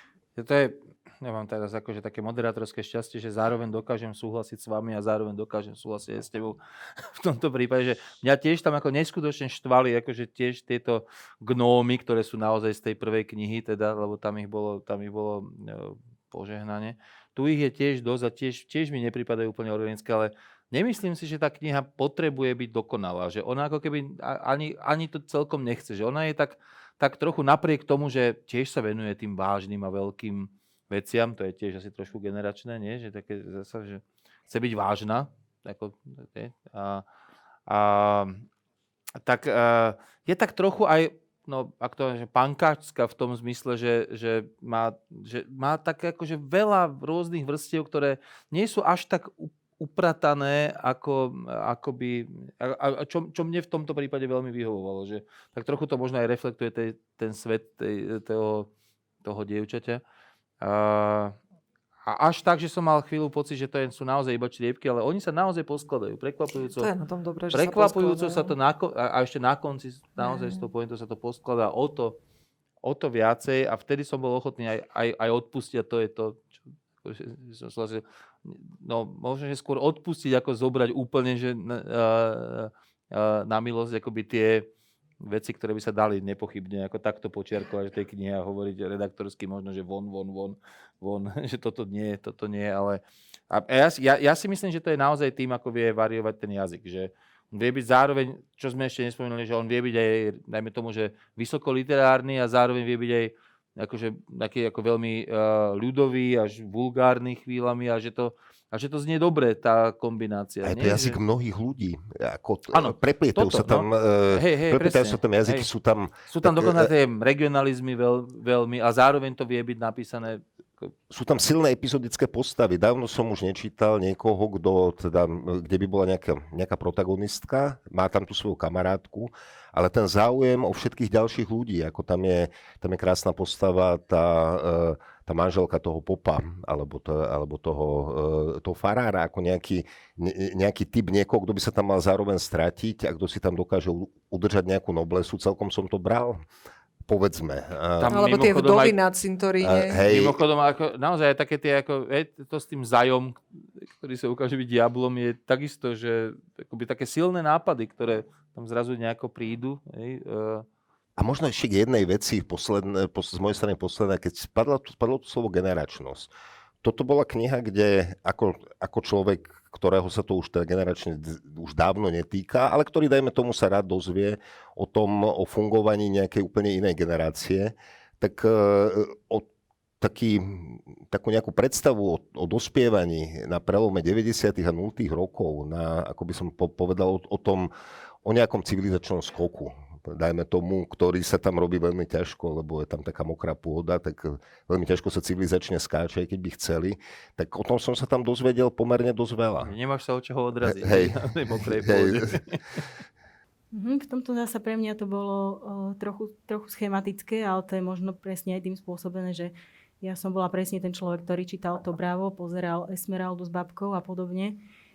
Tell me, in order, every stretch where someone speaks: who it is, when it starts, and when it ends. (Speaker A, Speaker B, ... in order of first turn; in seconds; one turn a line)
Speaker A: 0.3-37.0
Speaker A: 37.7-38.4
Speaker A: 39.2-58.7
Speaker A: 59.2-60.0
Speaker A: 60.6-61.4
Speaker A: 62.0-66.9
Speaker B: 66.7-68.5
Speaker A: 67.5-72.2
Speaker B: 70.2-70.6
Speaker A: 72.8-84.7
Speaker A: 85.2-111.2
Speaker C: 110.6-116.9
Speaker A: 112.7-115.7
Speaker A: 116.3-120.9
Speaker C: 121.1-146.4
Speaker C: 147.1-148.2
Speaker A: 148.0-149.0
Speaker B: 148.1-150.0
Speaker C: 149.6-150.4
Speaker A: 149.9-160.7
Speaker C: 161.2-166.3
Speaker C: 166.8-179.5
Speaker C: 180.0-187.7
Speaker C: 188.2-199.7
Speaker A: 199.6-202.8
Speaker C: 200.6-202.4
Speaker D: 203.7-214.6